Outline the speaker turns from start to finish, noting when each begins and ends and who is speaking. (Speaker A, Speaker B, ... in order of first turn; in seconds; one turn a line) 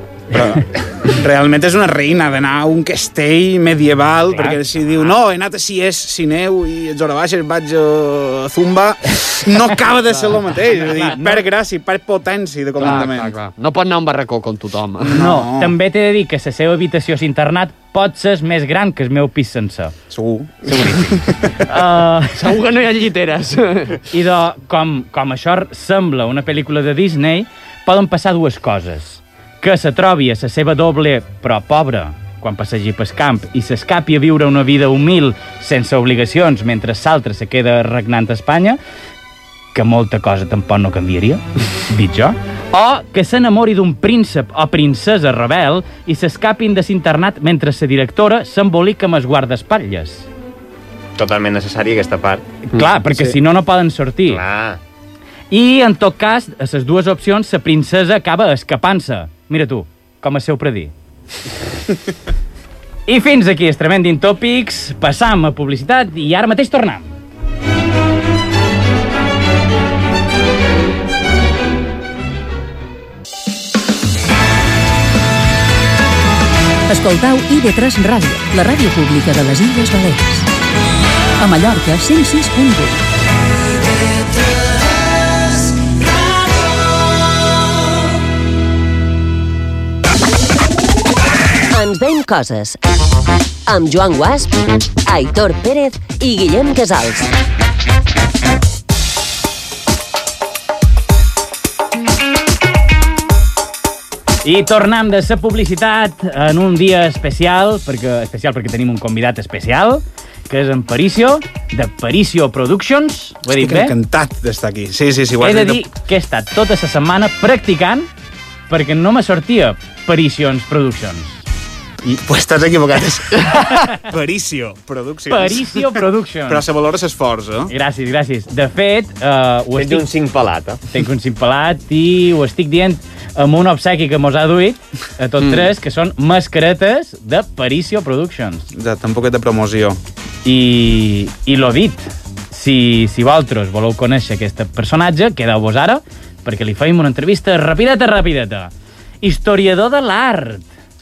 Speaker A: 0.3-13.3
Speaker B: 4.3-4.6
Speaker B: 10.7-11.4
Speaker C: 12.8-15.2
Speaker A: 15.0-15.8
Speaker B: 15.1-19.9
Speaker A: 20.1-21.6
Speaker B: 20.7-22.5
Speaker C: 22.3-24.0
Speaker B: 24.1-38.8
Speaker B: 39.7-50.3
Speaker D: 51.2-52.5
Speaker B: 52.7-54.4
Speaker D: 54.3-54.8
Speaker B: 55.5-60.9
Speaker B: 63.1-67.1
Speaker E: 76.9-80.5
Speaker E: 81.4-83.0
Speaker F: 91.7-92.8
Speaker F: 93.7-94.5
Speaker F: 95.1-97.3
Speaker B: 104.4-114.0
Speaker A: 113.5-115.8
Speaker B: 115.4-118.1
Speaker B: 118.7-121.4
Speaker A: 122.0-127.7
Speaker B: 123.7-124.0
Speaker B: 125.3-126.6
Speaker B: 127.7-130.1
Speaker D: 129.8-130.8
Speaker B: 130.9-138.7
Speaker A: 138.7-140.0
Speaker B: 140.4-150.7